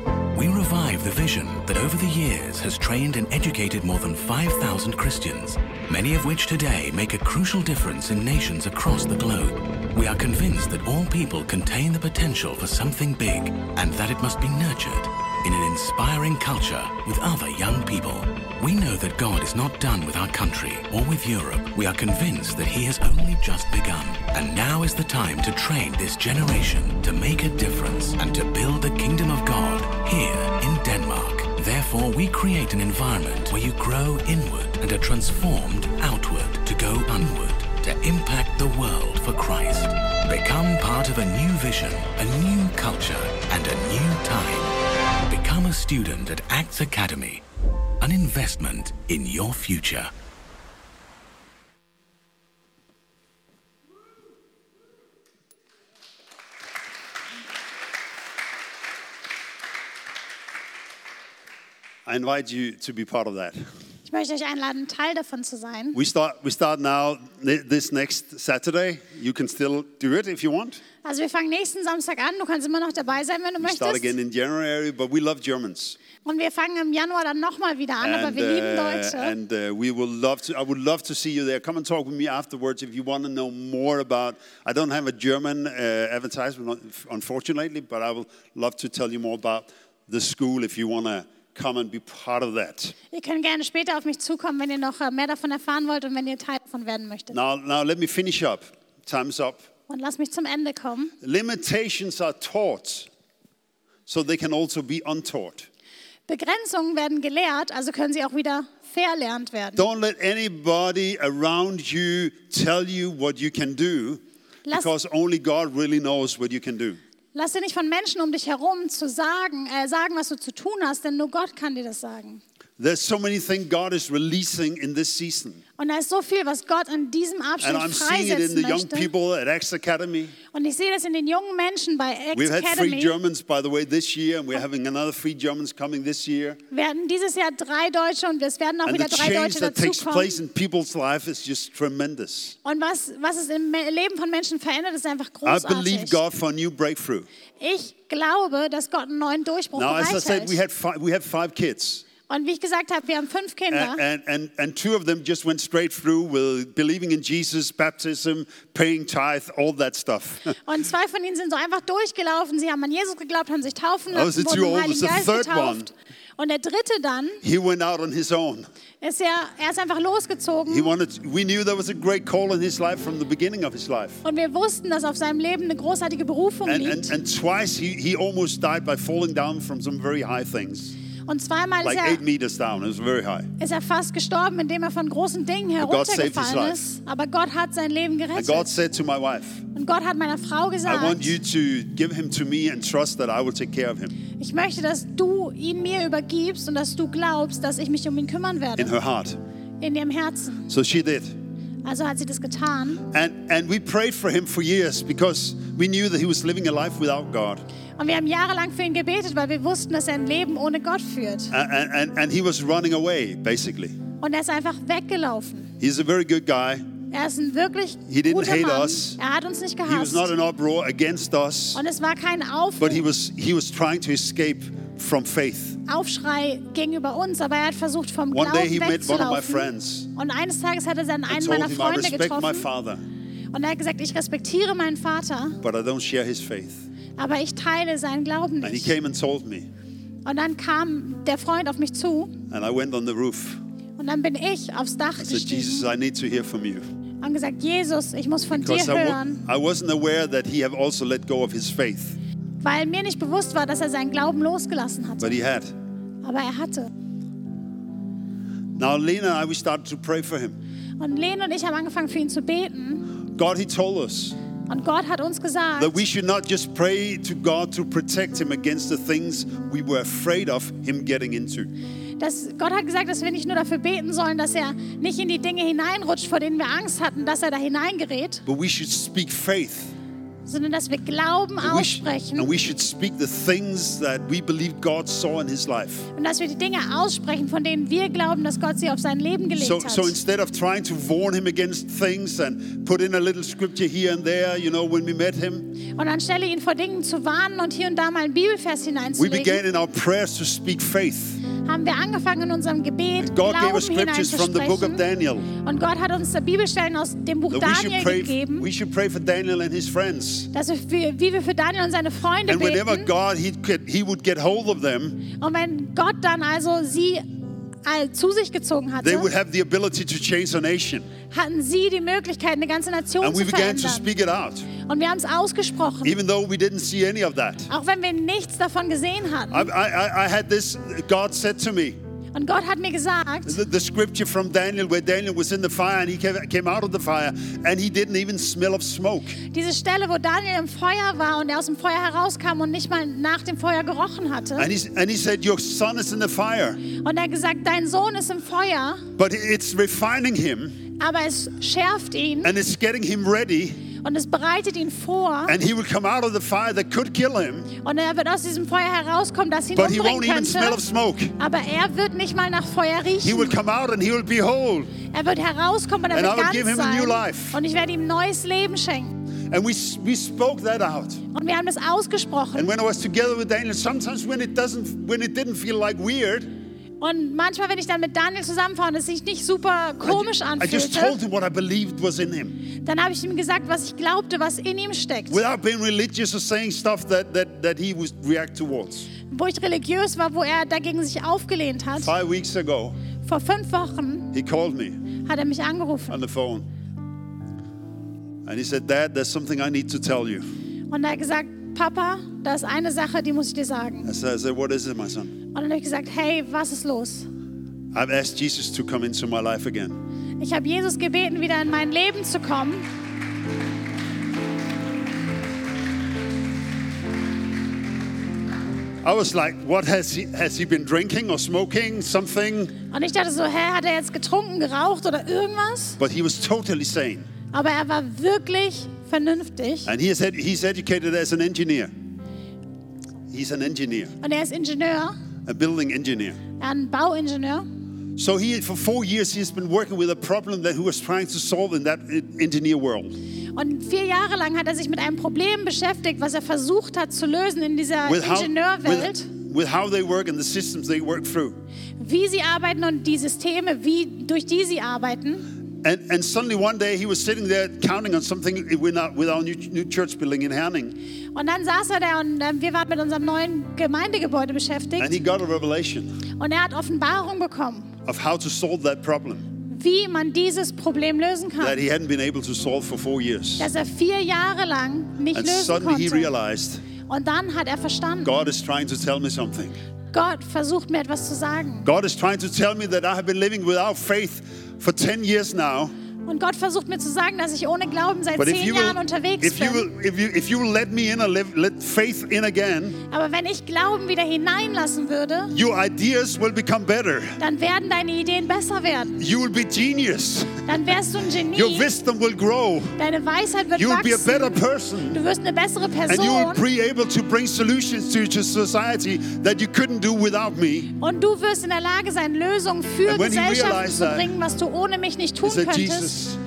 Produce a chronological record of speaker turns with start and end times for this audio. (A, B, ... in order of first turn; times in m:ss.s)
0:00.3-0:47.4 A
0:48.0-0:50.1 A
1:02.0-1:03.6 B
1:04.0-1:06.0 C
1:05.9-1:10.8 B
1:11.0-1:14.1 C
1:13.6-1:16.0 B
1:16.2-1:19.3 C
1:18.0-1:32.9 B
1:33.1-1:37.3 C
1:37.3-1:39.6 B
1:39.9-1:41.1 C
1:41.2-1:43.1 B
1:44.1-1:45.7 B
1:46.3-1:49.8 C
1:49.8-1:57.0 B
1:57.3-2:02.4 C
2:02.8-2:05.6 B
2:05.8-2:09.1 C
2:07.6-2:10.4 B
2:10.5-2:13.1 C
2:12.3-2:16.6 B
2:16.7-2:20.4 C
2:18.8-2:22.6 B
2:22.6-2:26.2 C
2:25.4-2:27.3 B
2:27.6-2:30.6 C
2:29.7-2:32.0 B
2:32.3-2:34.0 C
2:33.7-2:40.6 B
2:40.6-2:47.4 C
2:44.1-2:45.9 B
2:47.4-2:48.7 B
2:49.0-2:50.9 C
2:50.7-2:54.2 B
2:54.2-2:57.1 C
2:56.6-3:00.9 B
3:01.3-3:02.2 C
3:01.8-3:03.5 B
3:03.6-3:08.7 C
3:05.8-3:06.8 B
3:08.3-3:09.6 B
3:09.7-3:11.4 C
3:10.8-3:14.1 B
3:14.4-3:18.9 C
3:18.8-3:19.4 B
3:19.8-3:20.7 C
3:20.7-3:21.4 B
3:21.8-3:23.0 C
3:23.1-3:27.6 B
3:28.0-3:31.5 C
3:31.5-3:34.0 B
3:34.2-3:35.7 C
3:35.8-3:36.9 B
3:37.1-3:40.3 C
3:38.1-3:39.2 B
3:39.9-3:41.8 B
3:41.7-3:43.0 C
3:42.8-3:45.8 B
3:45.9-3:52.7 C
3:48.3-3:50.1 B
3:51.3-3:53.0 B
3:53.5-3:55.6 C
3:55.6-3:56.9 B
3:57.2-3:58.9 C
3:58.6-3:59.7 B
4:00.2-4:02.3 C
4:02.5-4:03.6 B
4:04.0-4:05.9 C
4:05.2-4:06.8 B
4:07.2-4:09.4 C
4:08.5-4:12.2 B
4:12.6-4:15.4 C
4:15.2-4:15.7 B
4:16.2-4:16.9 C
4:18.7-4:20.6 B
4:21.0-4:23.1 C
4:23.3-4:24.4 B
4:24.7-4:26.0 C
4:25.8-4:31.7 B
4:32.2-4:38.4 C
4:38.4-4:39.9 B
4:40.4-4:42.5 C
4:41.6-4:46.1 B
4:46.1-4:50.2 C
4:49.5-4:55.8 B
4:55.9-4:59.6 C
4:59.2-5:01.4 B
5:01.6-5:05.0 C
5:03.2-5:05.5 B
5:05.6-5:08.7 C
5:07.5-5:10.5 B
5:10.5-5:13.1 C
5:12.4-5:15.2 B
5:15.4-5:17.2 C
5:17.8-5:19.3 C
5:19.0-5:21.1 B
5:21.3-5:24.1 C
5:23.2-5:24.7 B
5:24.8-5:26.1 C
5:26.0-5:27.7 B
5:27.7-5:29.7 C
5:29.5-5:32.0 B
5:32.3-5:33.6 C
5:33.4-5:39.4 B
5:39.5-5:44.7 C
5:44.6-5:46.8 B
5:46.9-5:49.0 C
5:49.2-5:50.8 B
5:51.0-5:52.5 C
5:52.4-5:53.8 B
5:54.0-5:55.6 C
5:55.5-5:57.7 B
5:57.8-6:00.8 C
5:59.7-6:01.3 B
6:01.4-6:03.6 C
6:03.2-6:04.9 B
6:05.1-6:09.2 C
6:06.1-6:07.6 B
6:09.5-6:11.2 B
6:11.3-6:12.7 C
6:12.5-6:16.5 B
6:17.0-6:21.2 C
6:20.0-6:22.6 B
6:22.8-6:25.4 C
6:25.3-6:29.1 B
6:29.3-6:32.1 C
6:32.0-6:33.0 B
6:33.2-6:34.3 C
6:34.3-6:35.0 B
6:35.2-6:36.2 C
6:36.1-6:36.7 B
6:38.4-6:40.4 B
6:40.9-6:44.1 C
6:44.0-6:45.4 B
6:45.5-6:47.3 C
6:47.9-6:50.0 B
6:50.4-6:52.9 C
6:59.0-7:02.7 B
7:02.9-7:06.0 C
7:06.0-7:07.3 B
7:07.5-7:09.9 C
7:09.8-7:11.9 B
7:13.3-7:14.1 B
7:14.2-7:15.2 C
7:15.4-7:16.4 B
7:16.6-7:17.7 C
7:18.2-7:23.1 B
7:23.6-7:29.3 C
7:28.0-7:31.6 B
7:32.0-7:35.5 C
7:35.8-7:41.0 B
7:41.3-7:45.1 C
7:45.0-7:46.2 B
7:46.4-7:47.9 C
7:48.0-7:49.5 B
7:49.7-7:51.8 C
7:51.6-7:53.7 B
7:53.6-7:56.3 C
7:55.3-7:56.8 B
7:57.1-7:58.4 C
7:58.2-7:59.8 B
8:00.1-8:01.9 C
8:01.8-8:05.9 B
8:06.2-8:09.9 C
8:08.4-8:13.0 B
8:13.1-8:15.5 C
8:15.5-8:17.4 B
8:17.4-8:19.2 C
8:19.2-8:20.8 B
8:20.6-8:21.9 C
8:21.4-8:23.0 B
8:23.0-8:26.6 C
8:23.7-8:25.2 B
8:26.0-8:30.9 B
8:31.0-8:36.2 C
8:33.0-8:34.3 B
8:35.4-8:36.4 B